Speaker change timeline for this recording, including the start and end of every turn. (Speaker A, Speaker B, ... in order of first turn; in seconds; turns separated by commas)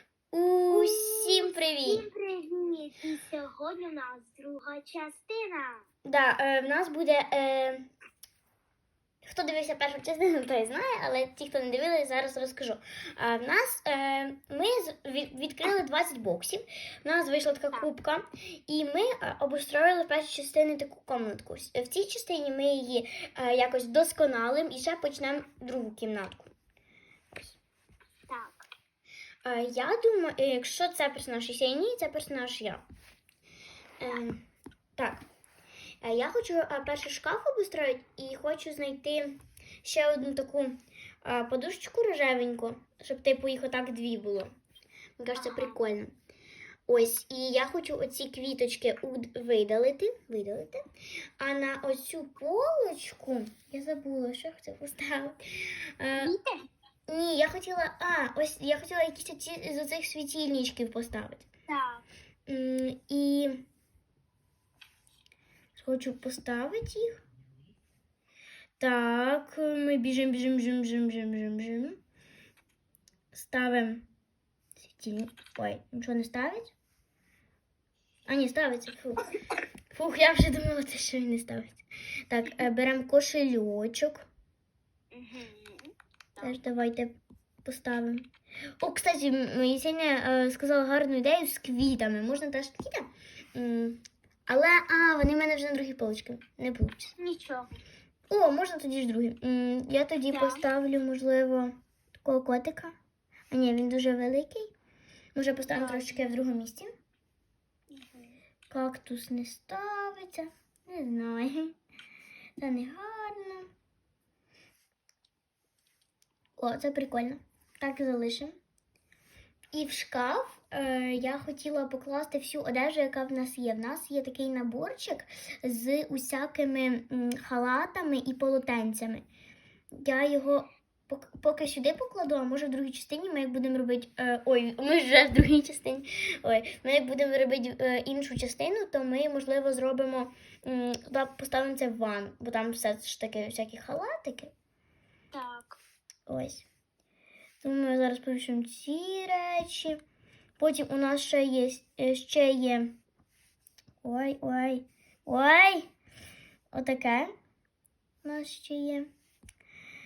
Speaker A: 0.3-2.0, Speaker B: 0.7-5.8, Speaker A: 6.0-7.9, Speaker A: 9.2-26.5, Speaker B: 28.3-28.7, Speaker A: 29.4-32.8, Speaker A: 34.0-34.4, Speaker A: 35.0-35.3, Speaker A: 36.0-44.5, Speaker A: 45.2-46.1, Speaker B: 45.4-45.8, Speaker A: 46.9-50.8, Speaker A: 51.4-55.4, Speaker A: 56.0-56.3, Speaker B: 56.2-56.7, Speaker A: 57.1-61.5, Speaker B: 61.7-62.0, Speaker A: 62.5-63.6, Speaker A: 65.8-67.2, Speaker A: 68.8-72.0, Speaker A: 73.3-74.1, Speaker A: 74.8-76.7, Speaker A: 78.3-79.3, Speaker A: 79.9-84.2, Speaker B: 85.1-86.6, Speaker A: 86.4-88.3, Speaker A: 88.8-97.1, Speaker B: 97.2-97.7, Speaker A: 98.3-103.0, Speaker B: 100.3-100.7, Speaker A: 103.5-104.7, Speaker A: 105.3-106.9, Speaker B: 105.7-106.2, Speaker B: 107.9-108.3, Speaker A: 108.7-111.8, Speaker A: 112.6-113.7, Speaker A: 116.6-118.5, Speaker A: 119.7-129.2, Speaker A: 129.9-144.5, Speaker B: 145.3-145.8, Speaker A: 146.3-146.7, Speaker A: 147.6-150.0, Speaker A: 150.6-153.0, Speaker A: 154.0-155.9, Speaker A: 156.7-157.3, Speaker A: 158.2-159.1